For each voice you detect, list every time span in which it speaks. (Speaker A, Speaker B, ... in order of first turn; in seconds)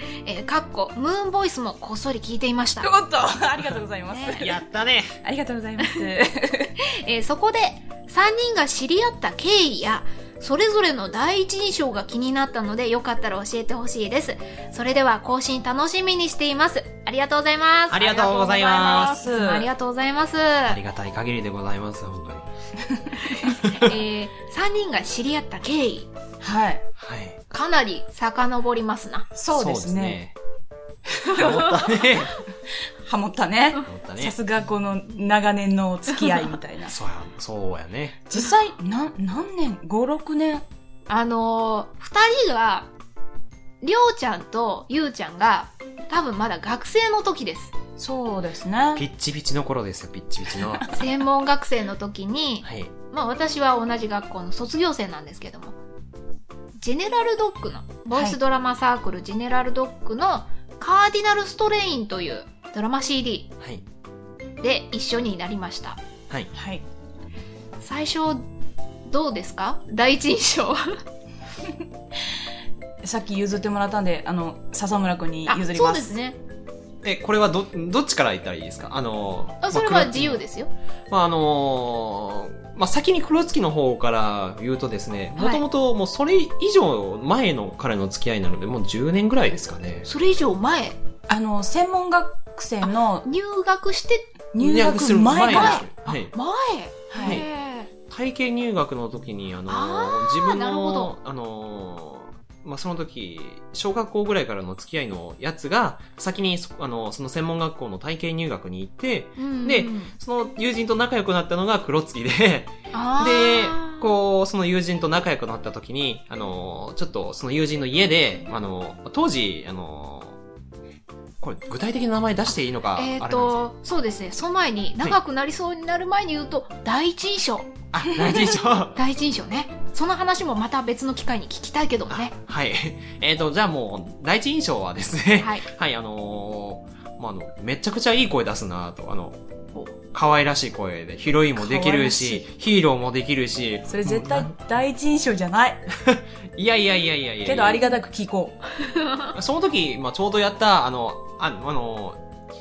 Speaker A: 0.2-2.9, 4.1-4.4, 6.8-20.8, 23.1-26.1, 27.5-29.3, 41.1-42.9, 43.8-47.7, 50.9-55.8, 56.8-63.5, 64.6-66.0, 67.8-68.5, 69.0-71.0, 75.5-76.4, 79.6-80.7, 85.4-85.6, 90.0-91.0, 93.2-94.3, 95.3-97.9, 99.7-101.1, 109.4-110.1, 112.9-114.0, 123.0-132.3, 135.4-135.7, 148.8-149.3
Speaker B: 2.8-4.6, 5.2-6.7, 18.5-19.7, 22.9-23.8, 26.4-26.8, 29.3-30.2, 31.2-31.7, 33.0-36.9, 38.3-40.6, 48.0-49.0, 58.1-58.4, 66.5-66.8, 73.0-76.2, 91.3-93.3, 94.5-96.2, 97.1-97.4, 141.6-142.4, 143.9-145.9, 147.4-148.6
Speaker C: 4.4-5.1, 17.9-19.2, 20.6-22.5, 27.0-27.4, 29.5-30.3, 31.3-32.3, 33.8-34.3, 36.9-38.3, 49.0-50.9, 52.6-52.9, 77.0-80.4, 81.1-90.0, 94.6-96.3, 97.2-97.5, 98.1-120.4, 121.4-123.6, 127.9-129.0, 132.1-139.4, 140.1-144.5, 146.0-147.8, 149.3-152.2